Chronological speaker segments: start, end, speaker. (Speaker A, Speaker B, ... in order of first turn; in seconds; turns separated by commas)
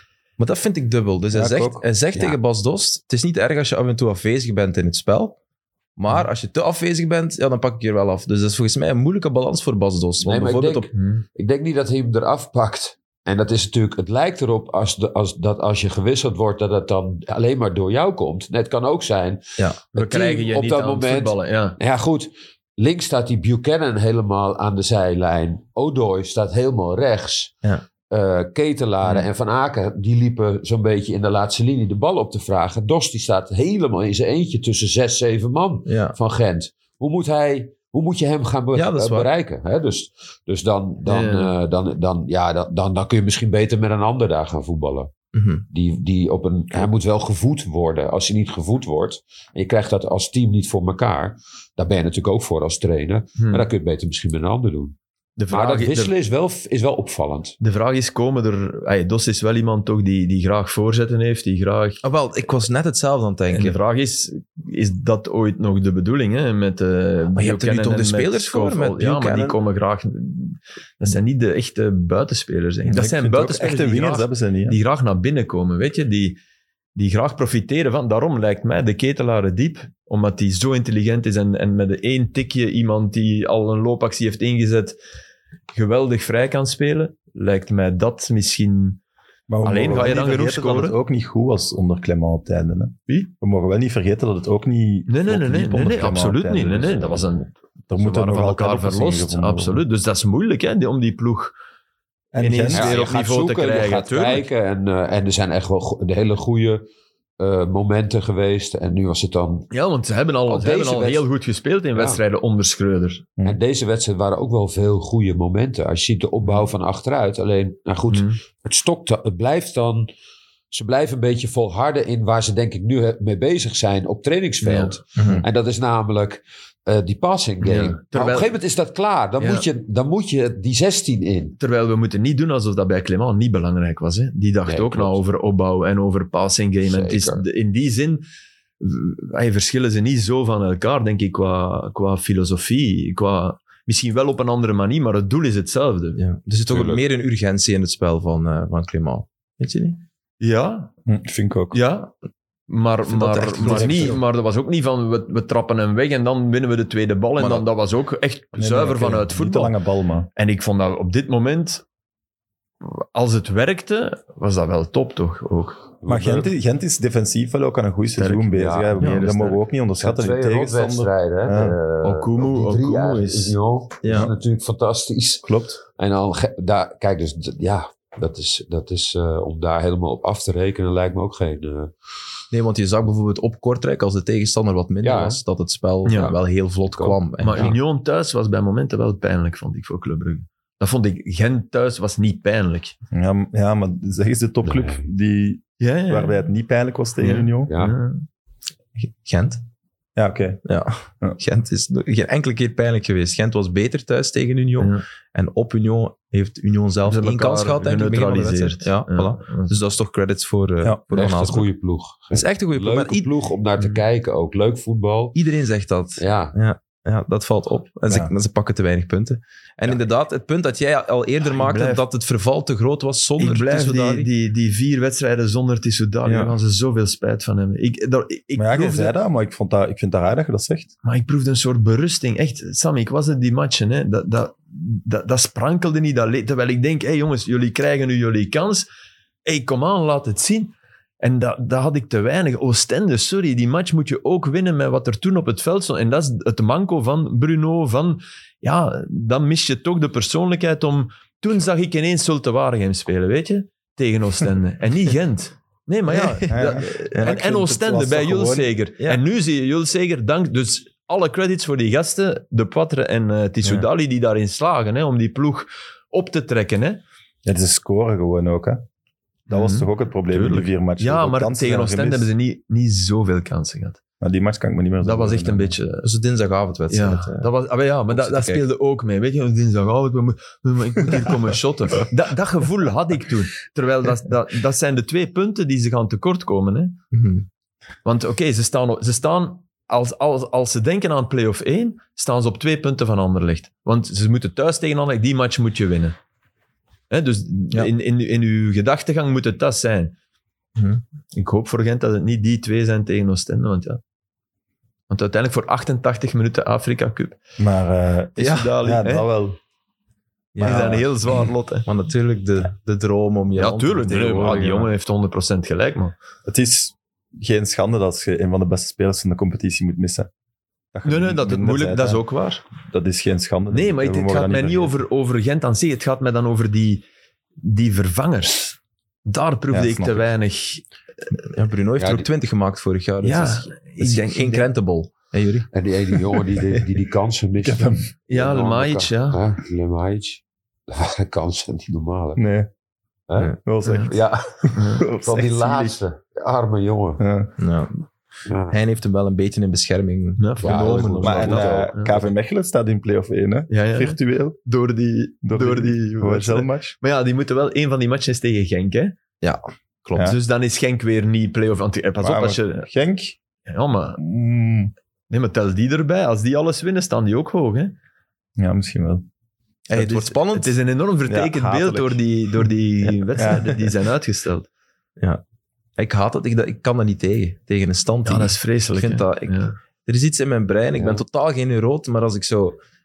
Speaker A: 0.4-5.4, Speaker B: 1.3-1.8, Speaker A: 6.0-10.9, Speaker C: 10.2-27.6, Speaker D: 10.9-11.2, Speaker D: 19.9-21.8, Speaker C: 28.1-45.1, Speaker A: 35.9-36.2, Speaker A: 38.8-39.3, Speaker D: 41.1-41.5, Speaker A: 45.3-45.6, Speaker C: 45.7-55.0, Speaker D: 53.4-53.7, Speaker D: 55.4-56.1, Speaker C: 55.5-57.6, Speaker D: 57.6-62.0, Speaker A: 62.0-63.8, Speaker D: 63.5-76.4, Speaker A: 67.4-69.6, Speaker B: 72.9-74.8, Speaker D: 77.0-85.0, Speaker D: 85.7-89.0, Speaker B: 89.5-97.3, Speaker D: 89.7-91.0, Speaker D: 95.1-101.5, Speaker B: 97.9-99.8, Speaker B: 102.3-103.0, Speaker D: 102.4-104.5, Speaker C: 102.7-106.9, Speaker C: 107.4-109.7, Speaker D: 109.7-113.3, Speaker C: 110.5-111.2, Speaker C: 112.0-112.2, Speaker C: 113.4-120.1, Speaker D: 118.1-118.4, Speaker C: 120.7-131.6, Speaker D: 124.6-125.0, Speaker A: 125.2-125.4, Speaker D: 127.6-128.6, Speaker D: 129.4-129.7, Speaker D: 131.6-138.2, Speaker C: 134.7-135.2, Speaker C: 136.9-137.4, Speaker D: 138.8-146.2, Speaker A: 146.2-150.0, Speaker C: 146.7-147.0, Speaker D: 150.4-150.9, Speaker B: 151.1-151.8, Speaker D: 151.7-152.1, Speaker D: 152.7-159.8, Speaker A: 153.1-154.2, Speaker B: 153.6-154.1, Speaker A: 157.4-157.7, Speaker B: 158.6-160.3, Speaker D: 160.4-161.8, Speaker D: 162.8-165.9, Speaker C: 166.0-166.5, Speaker B: 166.1-171.8, Speaker D: 168.2-169.6, Speaker C: 168.6-169.0, Speaker C: 170.0-181.9, Speaker D: 172.0-173.6, Speaker A: 174.0-174.3, Speaker B: 175.5-175.8, Speaker A: 182.5-187.8, Speaker C: 185.0-185.4, Speaker D: 186.1-186.4, Speaker C: 186.9-187.8, Speaker D: 187.4-192.9, Speaker B: 193.1-197.7, Speaker C: 194.6-195.1, Speaker D: 195.8-196.5, Speaker D: 197.2-198.3, Speaker C: 197.7-198.0, Speaker A: 199.0-199.6, Speaker B: 200.2-200.6, Speaker A: 200.7-211.7, Speaker D: 207.1-209.8, Speaker C: 211.1-215.4, Speaker A: 212.3-213.3, Speaker A: 215.3-224.3, Speaker C: 216.2-216.6, Speaker D: 221.5-222.0, Speaker D: 223.4-229.1, Speaker A: 226.2-226.5, Speaker B: 228.6-230.9, Speaker D: 231.0-238.8, Speaker D: 239.4-267.0, Speaker A: 256.1-257.4, Speaker B: 256.5-258.7, Speaker B: 267.4-268.8, Speaker B: 269.5-272.3, Speaker D: 269.5-274.0, Speaker B: 274.2-275.8, Speaker D: 275.0-276.1, Speaker A: 276.0-277.5, Speaker D: 276.9-287.0, Speaker A: 278.1-278.6, Speaker A: 287.1-287.5, Speaker D: 288.1-296.2, Speaker D: 297.1-300.1, Speaker A: 300.8-301.0, Speaker D: 301.3-304.0, Speaker D: 305.1-307.4, Speaker B: 307.6-309.6, Speaker D: 308.4-309.3, Speaker A: 310.6-311.0, Speaker B: 310.6-311.1, Speaker D: 310.6-311.9, Speaker A: 311.9-314.9, Speaker D: 313.6-316.1, Speaker B: 316.5-320.3, Speaker B: 320.9-322.2, Speaker D: 321.1-322.6, Speaker B: 322.9-325.0, Speaker D: 323.7-327.1, Speaker D: 327.6-330.9, Speaker B: 329.7-330.3, Speaker A: 331.5-336.2, Speaker C: 332.0-332.3, Speaker D: 333.2-334.7, Speaker C: 335.7-342.4, Speaker B: 337.6-338.1, Speaker D: 338.3-339.4, Speaker B: 342.4-342.7, Speaker C: 343.3-347.2, Speaker B: 343.6-346.0, Speaker D: 343.9-344.1, Speaker D: 344.8-345.1, Speaker B: 347.2-347.5, Speaker A: 347.6-348.1, Speaker C: 348.5-348.8, Speaker A: 348.7-351.3, Speaker D: 350.4-352.2, Speaker C: 350.6-352.0, Speaker B: 351.2-354.6, Speaker D: 353.7-359.2, Speaker B: 355.4-356.9, Speaker A: 359.4-360.3, Speaker D: 360.2-362.9, Speaker B: 362.2-363.4, Speaker D: 363.7-364.2, Speaker B: 364.2-364.9, Speaker D: 365.3-367.9, Speaker B: 368.6-369.2, Speaker A: 369.9-370.7, Speaker D: 369.9-374.7, Speaker B: 371.3-372.2, Speaker B: 373.4-373.7, Speaker A: 376.0-382.8, Speaker D: 378.2-379.8, Speaker C: 381.0-381.2